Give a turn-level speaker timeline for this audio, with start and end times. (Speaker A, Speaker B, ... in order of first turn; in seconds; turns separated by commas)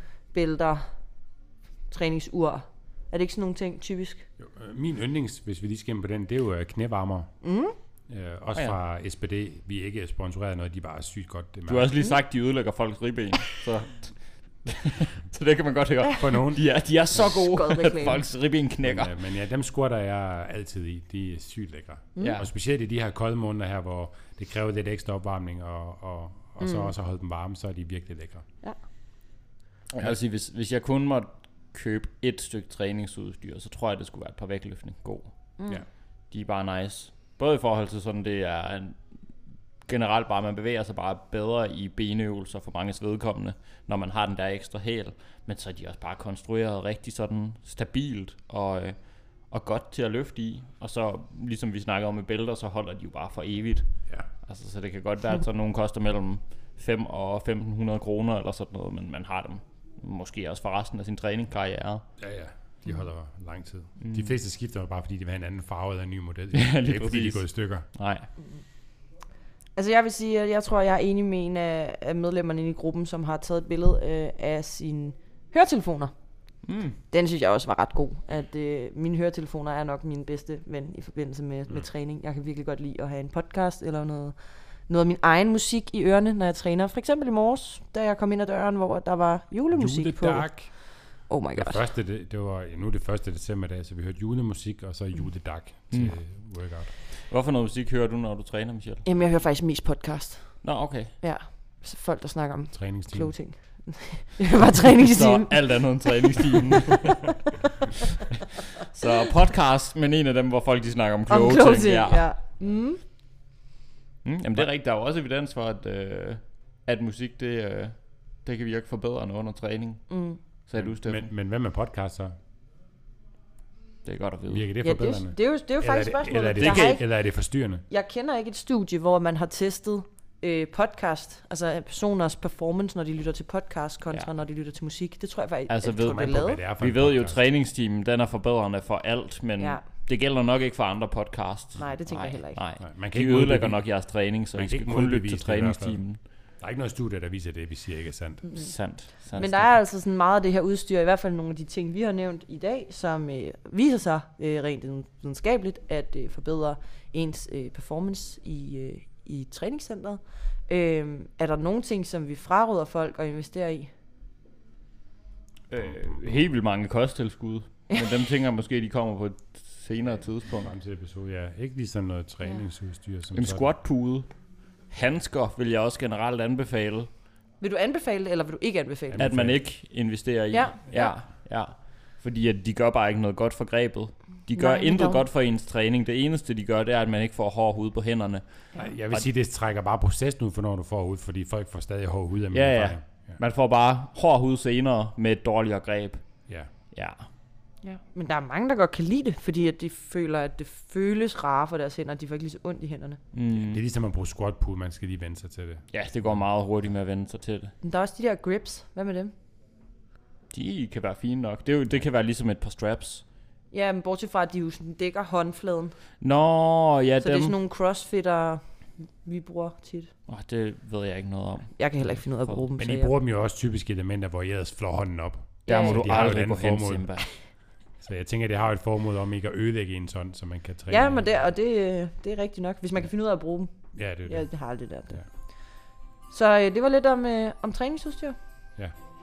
Speaker A: 0.3-0.8, Speaker A: 1.9-4.2, Speaker B: 4.4-7.3, Speaker A: 7.4-7.7, Speaker B: 8.1-11.9, Speaker C: 11.7-19.1, Speaker B: 16.1-16.6, Speaker A: 17.2-18.2, Speaker B: 18.8-28.4, Speaker C: 22.2-22.5, Speaker A: 26.6-26.9, Speaker C: 29.9-35.3, Speaker C: 36.3-39.0, Speaker C: 39.9-49.0, Speaker C: 49.5-53.9, Speaker C: 54.5-62.0, Speaker B: 62.2-67.9, Speaker C: 64.0-64.3, Speaker C: 66.5-68.2, Speaker A: 69.8-76.1, Speaker C: 76.7-77.0, Speaker A: 77.1-84.3, Speaker A: 84.9-90.7, Speaker B: 89.7-90.8, Speaker A: 91.3-91.8, Speaker B: 91.5-96.9, Speaker C: 95.9-96.2, Speaker C: 97.3-99.0, Speaker A: 99.0-106.7, Speaker C: 100.6-101.1, Speaker B: 102.7-103.3, Speaker C: 104.9-107.3, Speaker C: 108.8-112.4, Speaker A: 111.3-113.0, Speaker C: 114.2-120.1, Speaker A: 120.1-120.4, Speaker C: 120.7-121.3, Speaker B: 120.8-122.3, Speaker C: 124.0-124.7, Speaker B: 124.5-127.8, Speaker A: 124.8-127.1, Speaker C: 126.5-127.0, Speaker A: 127.9-136.6, Speaker C: 135.7-146.2, Speaker B: 136.0-137.4, Speaker A: 139.6-139.8, Speaker A: 141.8-142.6, Speaker B: 142.8-148.5, Speaker C: 148.5-149.7, Speaker A: 149.3-163.9, Speaker C: 165.7-170.7, Speaker B: 170.4-173.7, Speaker C: 173.3-174.3, Speaker C: 174.9-177.1, Speaker A: 177.6-179.3, Speaker B: 179.1-179.6, Speaker C: 179.2-188.4, Speaker A: 180.5-181.2, Speaker A: 184.5-185.3, Speaker B: 188.7-193.4, Speaker C: 192.5-196.2, Speaker C: 196.9-197.2, Speaker A: 197.8-203.2, Speaker C: 203.3-203.8, Speaker B: 203.5-206.4, Speaker C: 205.9-207.7, Speaker A: 207.8-209.3, Speaker C: 210.5-213.2, Speaker A: 213.7-215.9, Speaker C: 216.2-217.6, Speaker A: 217.2-218.6, Speaker A: 219.2-220.1, Speaker C: 220.3-221.7, Speaker A: 221.8-223.1, Speaker B: 222.8-227.3, Speaker C: 225.7-227.3, Speaker A: 225.7-226.2, Speaker B: 228.0-231.4, Speaker A: 230.9-233.7, Speaker B: 233.9-235.2, Speaker A: 234.2-235.2, Speaker A: 236.3-238.3